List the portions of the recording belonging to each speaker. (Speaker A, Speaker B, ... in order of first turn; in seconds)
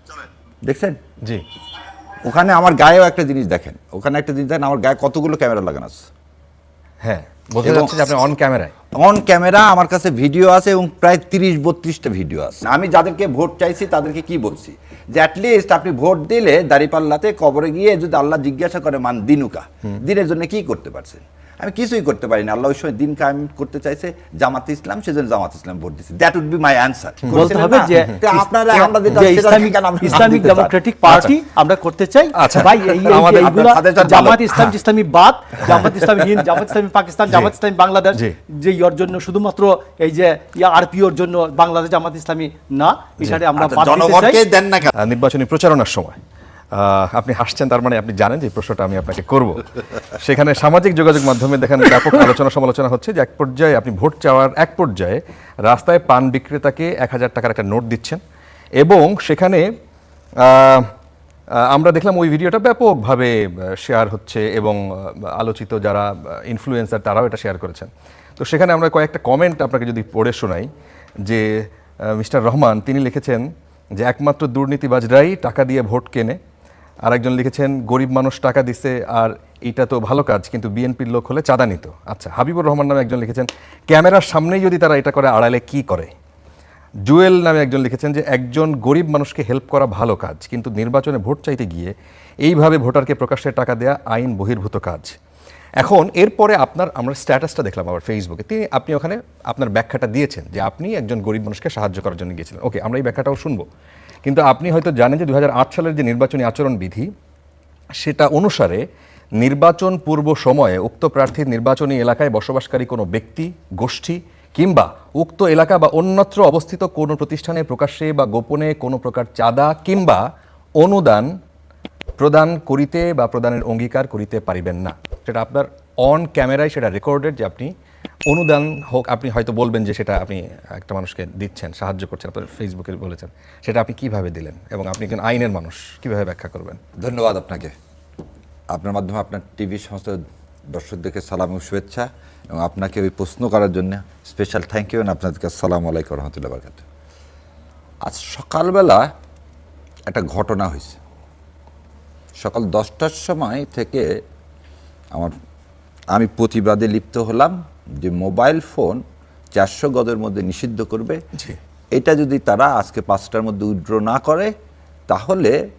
Speaker A: 0.6-1.0, 2.2-6.1, 7.6-8.0, 9.0-30.7, 32.8-34.5, 43.6-45.0, 137.0-137.7, 138.7-146.8, 148.0-149.1, 150.1-151.0, 152.4-154.1, 156.1-159.0, 159.5-161.2, 161.9-164.5, 165.1-165.6
Speaker B: 7.0-8.7, 31.1-31.3, 32.4-34.7, 35.6-36.6, 45.0-46.2, 46.7-58.2, 58.8-59.7, 60.4-60.9, 61.5-70.7, 71.2-76.4, 77.0-86.1, 87.0-95.2, 95.8-103.7, 104.2-107.1, 107.9-108.8, 109.4-120.3, 120.8-121.4, 122.2-127.7, 128.3-136.8, 161.3-161.6
Speaker C: 27.3-44.4